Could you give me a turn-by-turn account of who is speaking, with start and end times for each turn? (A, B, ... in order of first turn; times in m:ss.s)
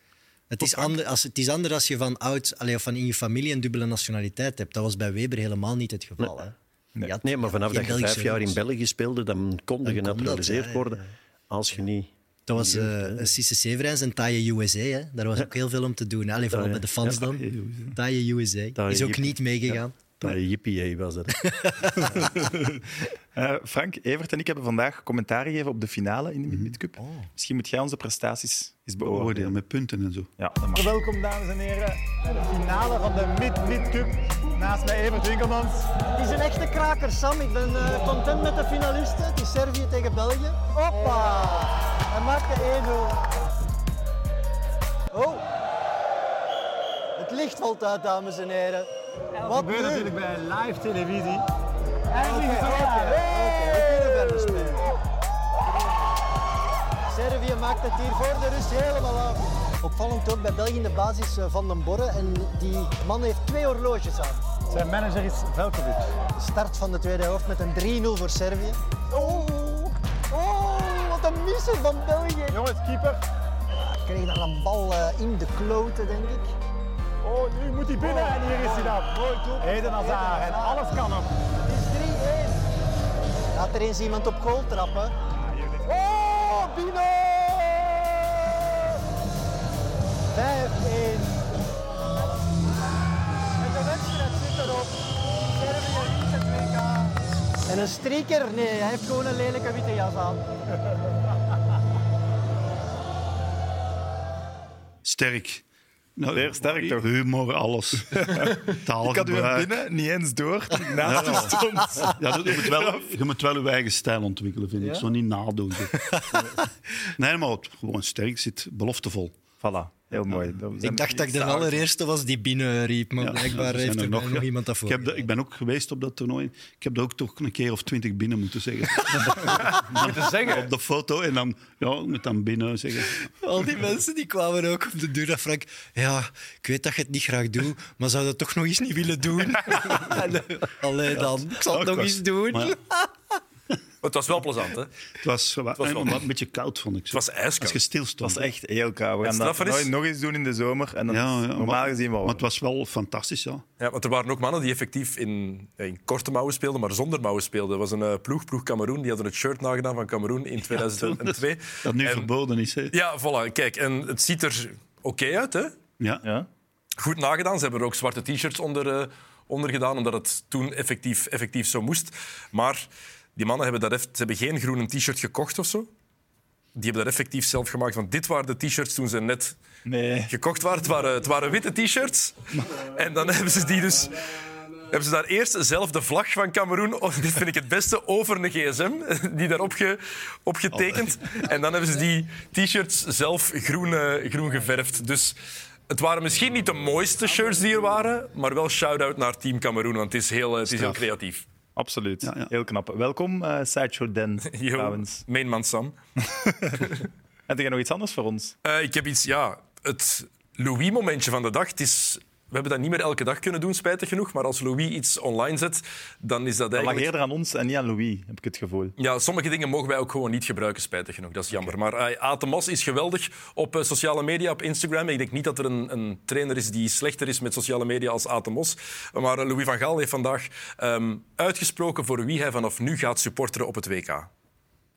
0:00.5-0:08.6 A
0:00.6-0:00.9 B
0:07.2-0:13.3 C
0:09.8-0:10.9 A
0:12.5-0:20.0 A
0:16.5-0:17.0 C
0:17.0-0:18.0 B
0:18.8-0:21.4 C
0:21.4-0:22.5 A
0:21.9-0:22.3 C
0:23.3-0:29.6 D
0:27.0-0:27.3 A
0:29.0-0:30.3 B
0:30.4-0:30.9 D
0:30.7-0:35.9 E
0:36.0-0:43.2 F
0:45.1-0:45.4 F
0:47.2-0:48.9 F
0:49.4-0:50.1 F
0:49.4-0:51.4 E
0:52.1-0:54.9 F
0:52.1-0:54.2 E
0:57.1-1:04.4 F
1:04.7-1:06.1 E
1:06.4-1:12.7 F
1:09.1-1:09.4 E
1:12.5-1:13.2 E
1:14.0-1:16.5 F
1:17.2-1:21.3 E
1:17.9-1:21.1 F
1:21.6-1:22.6 F
1:23.5-1:25.1 F
1:26.2-1:26.9 F
1:30.3-1:31.4 F
1:33.6-1:34.9 F
1:35.5-1:37.2 F
1:37.7-1:40.4 F
1:45.0-1:45.6 B
1:46.2-1:49.7 B
1:46.3-1:47.0 D
1:48.1-1:53.0 D
1:51.0-1:55.9 B
1:55.9-1:56.5 A
1:57.2-1:59.3 B
1:59.6-2:01.8 D
2:00.8-2:05.3 A
2:03.2-2:13.2 B
2:10.2-2:10.6 G
2:13.4-2:23.1 A
2:21.1-2:22.8 B
2:24.0-2:24.9 G
2:25.2-2:28.5 B
2:25.8-2:26.2 G
2:27.1-2:27.8 G
2:28.2-2:32.4 D
2:29.2-2:29.9 G
2:31.1-2:33.6 B
2:33.8-2:42.3 G
2:40.7-2:42.9 B
2:42.9-2:45.8 G
2:46.0-2:46.2 B
2:46.2-2:46.5 D
2:47.0-2:55.9 G
2:56.8-2:59.6 G
2:59.8-3:00.3 D
3:00.3-3:15.4 G
3:15.9-3:21.4 G
3:21.8-3:25.2 D
3:22.2-3:22.5 B
3:24.4-3:25.9 G
3:26.4-3:26.8 D
3:27.5-3:28.5 D
3:28.6-3:37.1 G
3:36.7-3:38.9 D
3:39.0-3:54.3 G